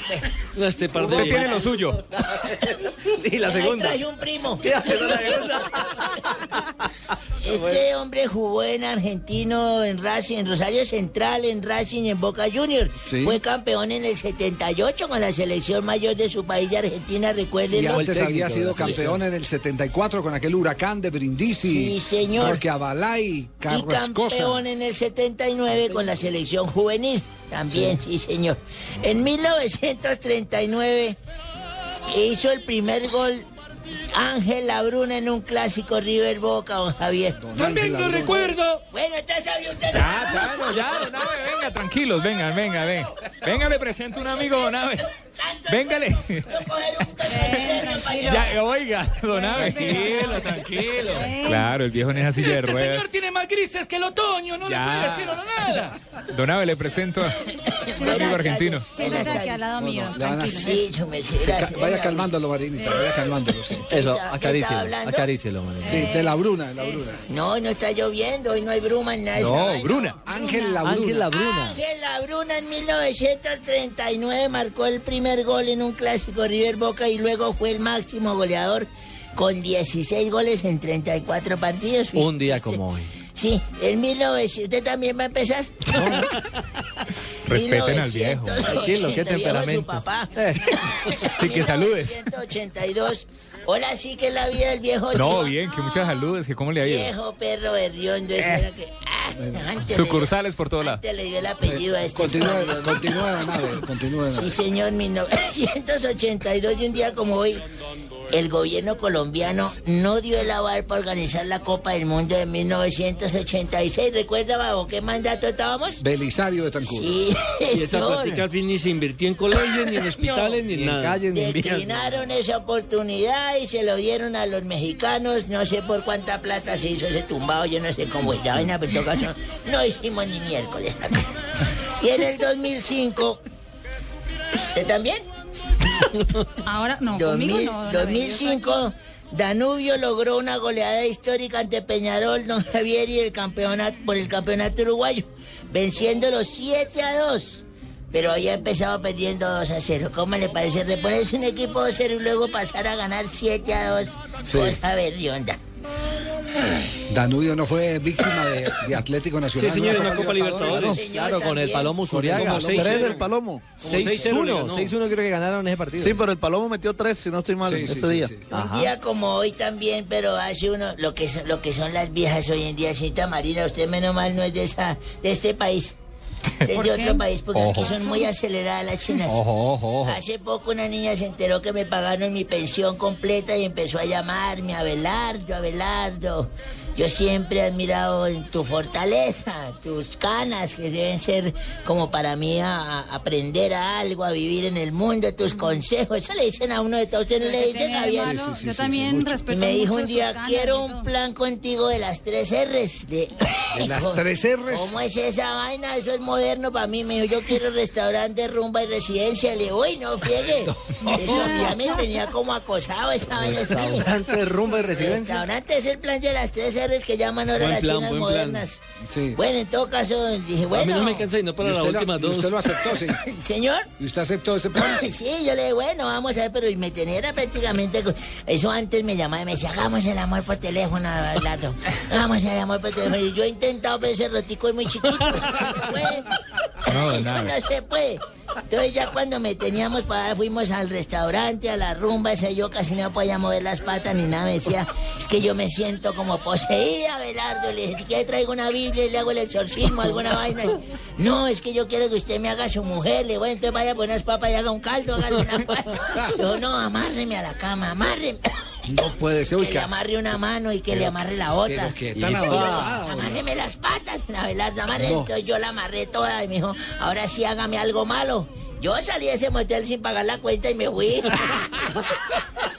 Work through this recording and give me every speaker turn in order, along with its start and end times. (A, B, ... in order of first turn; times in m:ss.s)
0:00.5-0:01.6 A
0:00.9-0:04.0 B
0:01.0-0:02.0 C
0:03.4-0:05.4 D
0:04.6-0:06.4 B
0:07.4-0:18.1 D
0:07.5-0:07.8 B
0:13.0-0:13.4 E
0:17.7-0:24.6 E
0:18.0-0:19.2 A
0:21.6-0:22.6 D
0:23.7-0:31.2 D
0:27.7-0:28.0 E
0:32.1-0:33.4 D
0:34.1-0:37.4 D
0:37.4-0:38.6 E
0:37.6-0:38.6 F
0:38.3-0:38.8 G
0:38.9-0:40.6 D
0:39.9-0:45.0 C
0:45.4-0:48.6 D
0:45.7-0:46.6 C
0:47.2-0:48.5 F
0:47.3-0:53.1 C
0:49.3-0:51.7 F
0:52.4-0:54.4 G
0:53.4-0:55.9 F
0:54.6-0:55.5 C
0:54.9-0:55.8 G
0:56.3-0:57.4 C
0:57.6-0:59.6 D
0:57.9-1:00.9 F
0:58.1-0:59.1 C
0:59.7-1:00.7 E
1:00.5-1:02.3 D
1:01.4-1:03.9 E
1:02.8-1:03.0 F
1:03.7-1:05.3 D
1:03.9-1:06.1 B
1:05.8-1:07.2 F
1:05.8-1:07.2 E
1:07.3-1:10.1 D
1:09.4-1:10.2 C
1:09.9-1:11.0 F
1:10.2-1:11.3 E
1:10.8-1:11.8 B
1:11.3-1:22.8 D
1:22.2-1:23.1 A
1:23.3-1:26.3 D
1:25.9-1:26.2 B
1:27.5-1:28.9 C
1:27.5-1:35.5 D
1:28.7-1:31.1 B
1:31.2-1:32.2 C
1:35.1-1:37.1 C
1:35.7-1:36.2 F
1:36.8-1:47.6 D
1:38.4-1:38.7 C
1:39.4-1:39.6 E
1:39.9-1:41.0 C
1:41.6-1:44.6 E
1:48.3-1:56.0 D
1:56.0-1:57.1 E
1:56.8-1:58.4 D
1:57.7-2:01.3 A
1:59.5-2:00.6 D
2:00.6-2:02.2 B
2:01.3-2:11.3 D
2:12.0-2:13.4 D
2:14.7-2:15.2 D
2:16.6-2:18.8 F
2:17.1-2:35.6 D
2:34.4-2:34.8 E
2:37.1-2:40.9 E
2:39.6-2:41.1 A
2:40.6-2:41.0 H
2:40.7-2:42.0 D
2:41.0-2:42.9 B
2:41.6-2:43.3 A
2:42.1-2:44.9 H
2:42.3-2:43.2 E
2:43.8-2:45.0 A
2:43.8-2:46.2 B
2:46.0-2:48.3 H
2:47.6-2:48.4 E
2:48.5-2:56.0 D
2:48.5-2:48.9 B
2:56.6-2:59.5 D
2:56.7-2:58.3 F
2:59.4-2:59.8 A
3:00.0-3:18.3 D
3:15.5-3:15.8 F
3:17.4-3:21.1 F
3:18.2-3:19.4 E
3:19.5-3:34.1 D
3:23.7-3:25.0 E
3:31.0-3:31.6 B
3:31.1-3:32.1 F
3:33.4-3:35.4 B
3:34.9-3:38.8 D
3:37.6-3:38.6 A
3:39.1-3:39.4 E
3:39.3-3:41.3 D
3:40.7-3:42.6 A
3:41.6-3:43.2 E
3:42.8-3:43.9 D
3:44.0-3:45.1 E
3:44.7-3:56.3 D
3:56.8-3:57.6 C
3:56.8-4:18.4 D
4:18.9-4:19.9 E
4:19.5-4:31.8 D
4:20.9-4:23.4 E
4:22.2-4:22.9 A
4:24.9-4:25.3 E